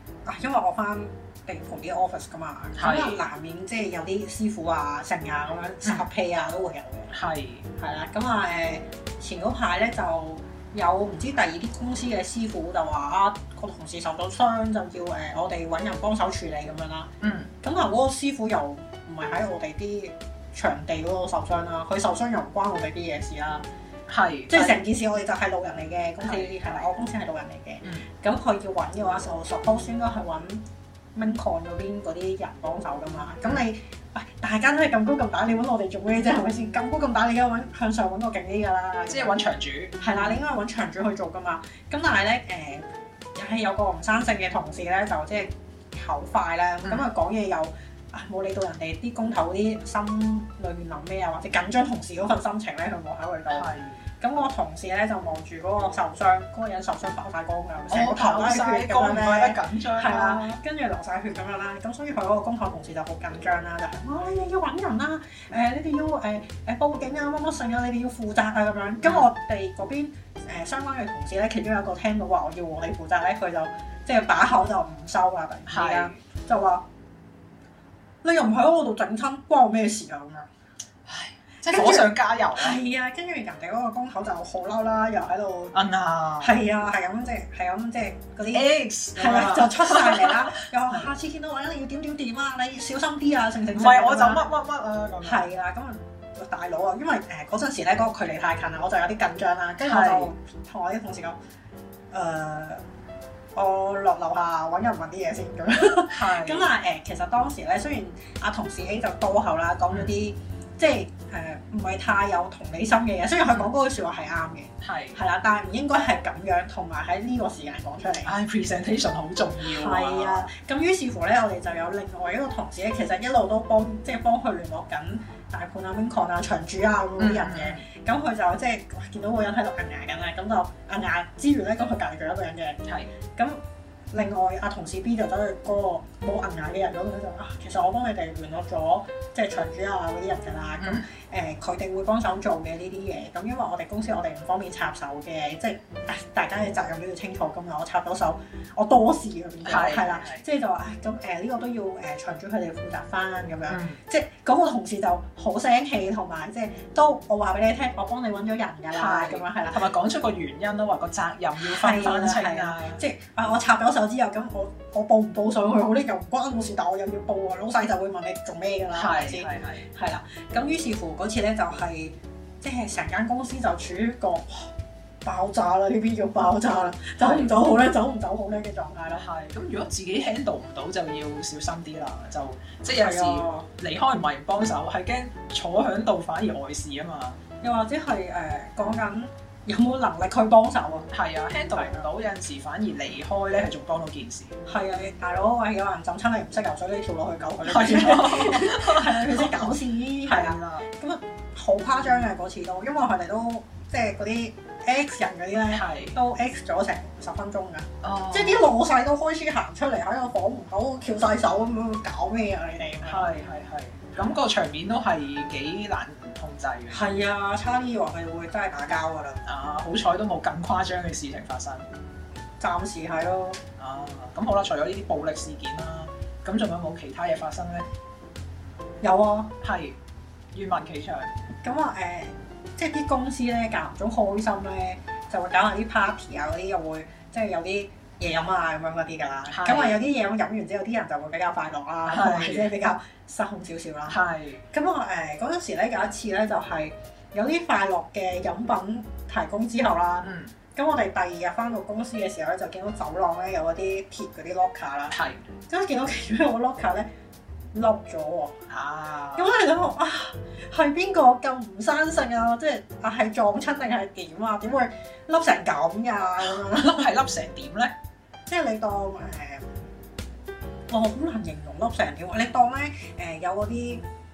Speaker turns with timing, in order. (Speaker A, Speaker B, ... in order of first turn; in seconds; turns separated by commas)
Speaker A: 0.2-7.1, Speaker B: 2.8-3.2, Speaker B: 7.1-7.7, Speaker A: 7.8-17.1, Speaker B: 17.2-17.5, Speaker A: 17.6-23.6, Speaker B: 24.1-24.8, Speaker A: 24.5-30.6, Speaker B: 26.2-26.9, Speaker A: 31.1-39.4, Speaker B: 39.1-40.0, Speaker A: 40.0-53.7, Speaker B: 53.5-54.0, Speaker A: 54.2-76.8, Speaker B: 57.9-60.6, Speaker B: 75.7-76.2, Speaker A: 78.2-80.5, Speaker B: 81.1-82.8, Speaker A: 81.7-85.8, Speaker B: 85.7-86.6, Speaker A: 86.4-94.5, Speaker B: 88.5-91.0, Speaker B: 93.7-95.5, Speaker A: 95.2-101.4, Speaker B: 99.8-100.3, Speaker A: 102.1-102.8, Speaker A: 103.5-118.3, Speaker B: 106.1-106.7, Speaker B: 114.8-115.2, Speaker B: 118.2-120.5, Speaker A: 119.6-132.8, Speaker B: 127.2-127.8, Speaker B: 132.8-133.1, Speaker A: 133.3-133.6, Speaker A: 134.1-159.9, Speaker B: 140.8-141.1, Speaker B: 149.6-150.4, Speaker B: 153.7-154.0, Speaker B: 158.9-163.0, Speaker A: 161.6-174.7, Speaker B: 168.9-169.9, Speaker A: 175.2-179.2, Speaker B: 177.2-177.5, Speaker B: 179.1-187.4, Speaker A: 182.8-183.7, Speaker A: 187.6-191.1, Speaker B: 191.1-194.6, Speaker A: 191.7-192.1, Speaker A: 194.7-213.2, Speaker B: 197.6-200.9, Speaker B: 205.7-206.2, Speaker B: 208.0-208.7, Speaker B: 213.0-217.0, Speaker A: 216.9-219.4, Speaker B: 219.4-221.9, Speaker A: 222.6-223.6, Speaker B: 223.8-227.9, Speaker A: 229.0-229.5, Speaker B: 229.6-230.0, Speaker B: 230.5-231.3, Speaker A: 231.6-244.2, Speaker B: 239.5-240.0, Speaker B: 242.1-242.7, Speaker B: 244.1-244.6, Speaker A: 244.7-255.2, Speaker B: 250.2-250.5, Speaker B: 255.1-255.4, Speaker A: 255.7-257.1, Speaker A: 257.7-258.6, Speaker B: 258.7-259.5, Speaker A: 259.4-267.1, Speaker B: 266.4-267.9, Speaker A: 268.5-269.9, Speaker A: 270.9-274.0